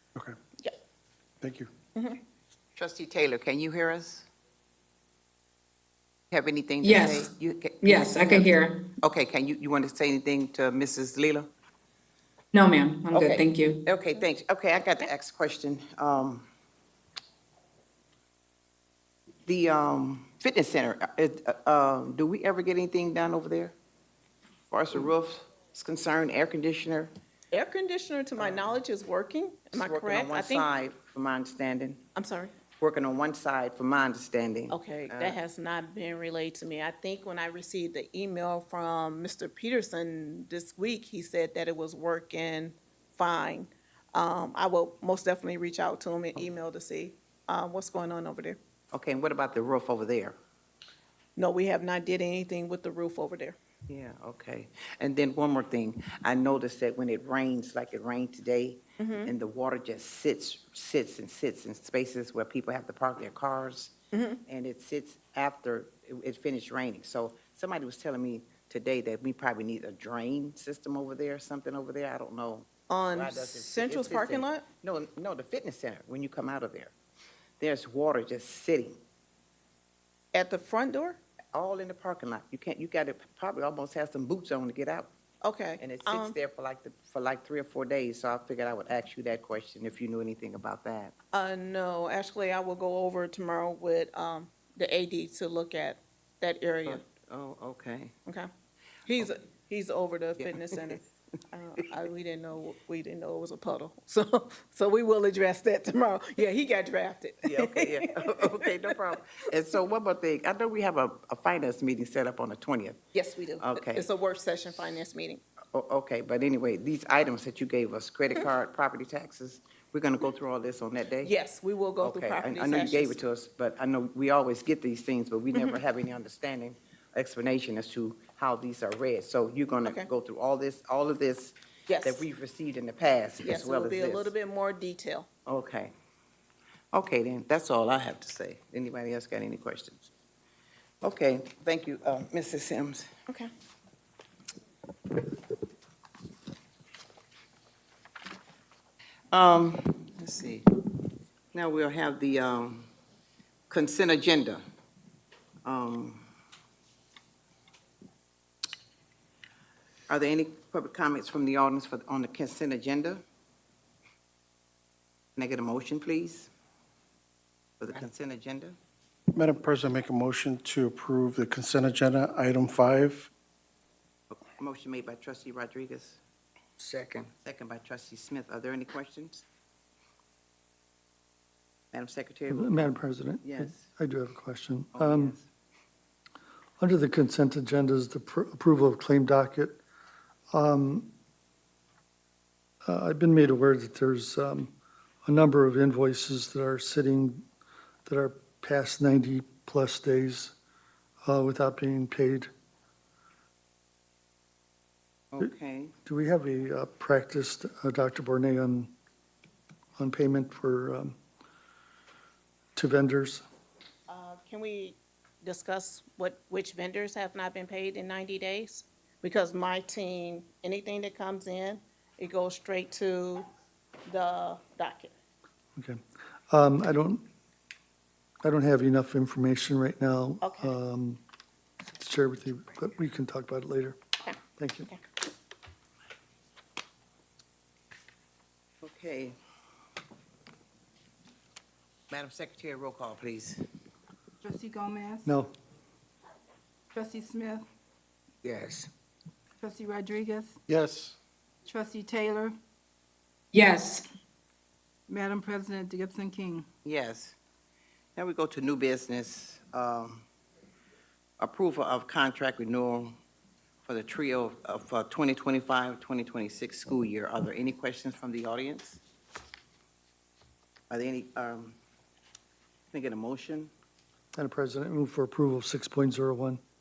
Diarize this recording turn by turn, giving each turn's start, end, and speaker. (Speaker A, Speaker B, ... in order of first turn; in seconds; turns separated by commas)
Speaker A: 1.4-1.7, Speaker B: 1.9-2.2, Speaker C: 2.8-4.3, Speaker C: 6.3-11.5, Speaker D: 6.8-8.9, Speaker D: 12.5-13.8, Speaker C: 13.1-16.5, Speaker C: 19.5-23.7, Speaker C: 24.7-27.1, Speaker B: 27.5-30.7, Speaker C: 29.7-32.0, Speaker B: 32.1-32.5, Speaker C: 32.8-35.4, Speaker B: 34.7-48.6, Speaker C: 48.9-50.4, Speaker B: 51.4-53.6, Speaker C: 53.9-63.9, Speaker B: 59.0-59.3, Speaker B: 64.1-64.4, Speaker C: 64.5-76.9, Speaker B: 72.9-74.7, Speaker C: 77.6-79.0, Speaker B: 80.3-81.2, Speaker C: 81.5-85.1, Speaker B: 85.4-86.4, Speaker C: 85.8-91.1, Speaker B: 91.3-97.0, Speaker C: 96.9-98.1, Speaker B: 99.1-101.0, Speaker C: 100.4-101.0, Speaker B: 101.5-108.8, Speaker C: 107.5-113.0, Speaker B: 113.1-115.4, Speaker C: 113.6-114.1, Speaker C: 115.7-121.3, Speaker B: 121.2-123.2, Speaker C: 122.0-134.3, Speaker B: 131.9-132.3, Speaker B: 133.4-135.3, Speaker C: 135.5-135.9, Speaker C: 136.9-140.1, Speaker C: 141.0-143.1, Speaker C: 149.3-150.7, Speaker C: 151.5-152.9, Speaker C: 153.7-154.6, Speaker C: 155.7-156.2, Speaker C: 160.1-163.2, Speaker C: 165.4-166.5, Speaker C: 167.8-168.8, Speaker A: 169.3-173.3, Speaker C: 174.6-176.2, Speaker C: 177.3-179.4, Speaker C: 181.9-182.8, Speaker E: 182.5-185.4, Speaker C: 183.4-183.8, Speaker C: 184.9-185.5, Speaker E: 186.8-189.8, Speaker E: 190.5-191.1, Speaker E: 192.9-194.7, Speaker E: 195.2-197.4, Speaker E: 198.1-200.6, Speaker E: 201.2-202.5, Speaker C: 205.3-205.9, Speaker E: 206.1-208.9, Speaker E: 210.0-211.2, Speaker E: 212.8-213.4, Speaker B: 214.1-223.5, Speaker B: 224.1-225.1, Speaker E: 226.5-227.3, Speaker E: 228.4-231.2, Speaker B: 230.4-230.8, Speaker E: 232.0-234.0, Speaker E: 234.6-234.9, Speaker C: 238.8-239.3, Speaker C: 242.1-243.6, Speaker F: 244.4-245.3, Speaker E: 245.2-245.5, Speaker F: 246.9-247.7, Speaker C: 248.4-248.9, Speaker F: 249.6-250.6, Speaker A: 250.7-251.2, Speaker F: 251.7-252.6, Speaker D: 253.5-254.1, Speaker F: 255.1-256.7, Speaker C: 256.9-257.4, Speaker C: 258.2-260.2, Speaker C: 261.4-263.1, Speaker C: 263.9-269.0, Speaker C: 270.9-271.8, Speaker C: 272.9-273.7, Speaker E: 274.4-276.6